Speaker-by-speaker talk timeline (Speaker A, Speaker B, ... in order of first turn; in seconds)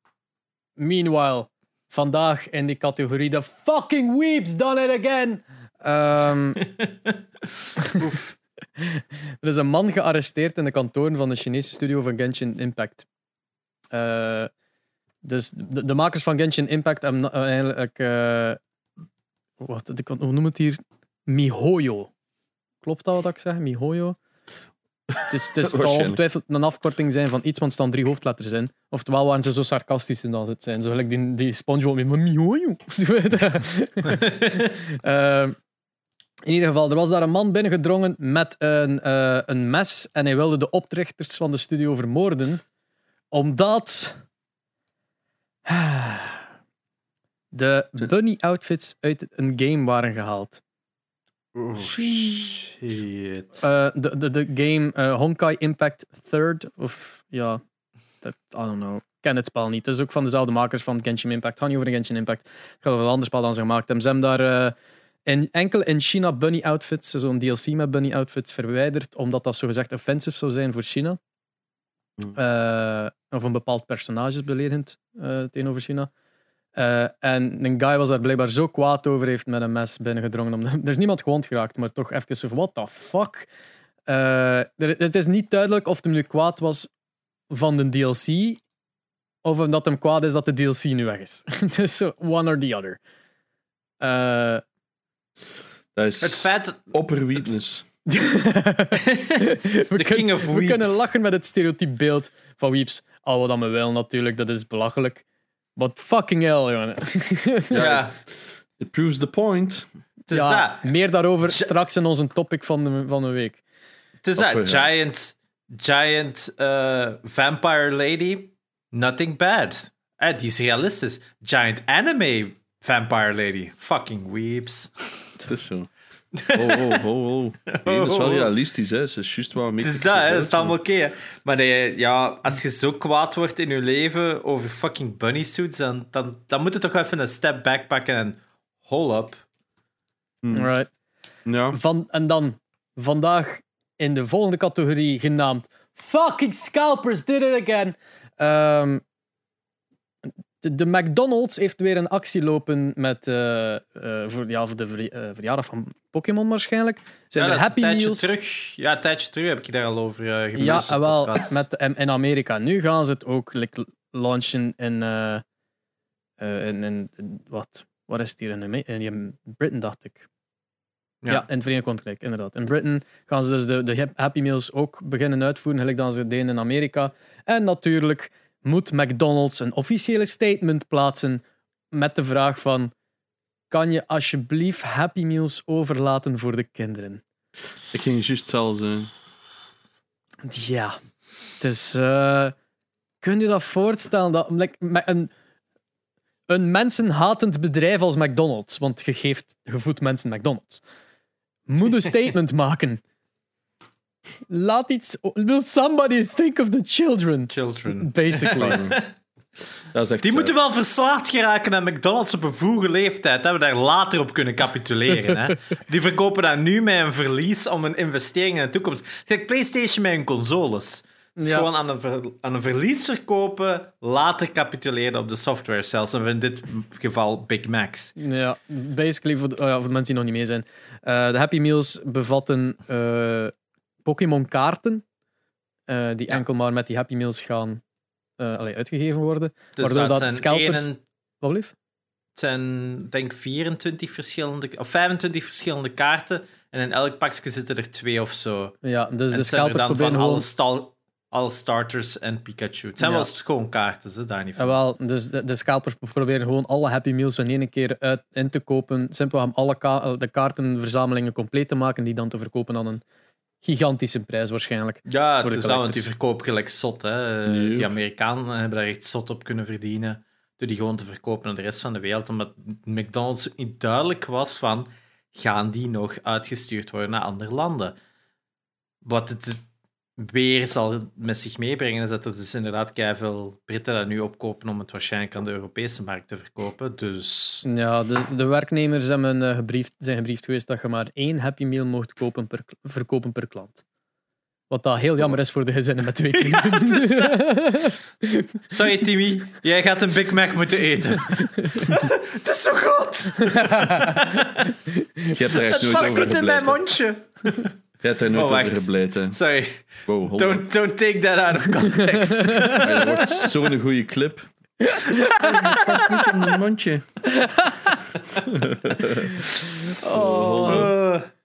Speaker A: 0.8-6.6, 8.8-13.1, 13.9-14.5, 15.2-18.6, 19.6-22.1, 22.8-24.2, 25.3-35.5, 36.4-42.6, 43.3-44.2, 45.6-46.5, 47.5-50.6, 51.7-52.5, 53.6-57.6, 58.2-64.7, 65.2-71.2, 72.3-76.1, 76.8-83.5, 84.1-86.9, 87.5-88.6, 89.4-93.0, 94.0-94.6, 98.1-105.2, 105.8-107.8, 110.3-113.6, 140.5-140.9, 141.7-149.0, 150.6-158.3, 160.6-165.4, 166.4-170.3, 171.3-182.9, 183.7-187.2, 190.4-191.0, 191.6-192.5, 193.2-195.3, 196.5-200.8, 201.7-203.0, 204.5-208.8, 221.4-221.7, 228.2-233.5, 234.0-235.0, 235.9-237.8, 238.4-240.9, 241.4-241.7, 248.8-250.4, 253.0-253.3, 254.6-263.0, 263.6-266.1, 287.6-293.8, 294.7-298.9, 301.3-301.9, 303.4-306.2, 312.4-312.8, 314.8-316.4, 317.4-317.9, 319.9-320.9
Speaker B: 7.8-8.3, 51.6-53.6, 96.2-96.9, 99.0-101.1, 107.7-108.1, 110.3-110.9, 114.2-125.3, 126.3-127.0, 127.7-128.5, 129.8-139.4, 157.3-161.6, 207.5-209.1, 210.2-228.1, 239.8-241.0, 242.3-248.8, 249.3-254.8, 265.1-277.9, 279.0-279.6, 280.2-287.6, 296.3-297.4, 298.7-304.7, 305.7-307.7, 308.3-313.5, 315.1-315.8, 320.6-321.3
Speaker C: 25.1-26.2, 95.9-97.8, 107.7-108.1, 108.8-109.9, 114.3-114.9, 125.4-125.9, 126.5-130.7, 140.4-140.7, 141.4-141.8, 187.9-189.1, 208.6-209.0, 209.9-210.5, 267.4-267.9, 305.3-306.8, 308.0-309.4, 310.1-310.6, 312.8-314.5, 315.4-317.1, 318.4-319.5, 320.0-320.9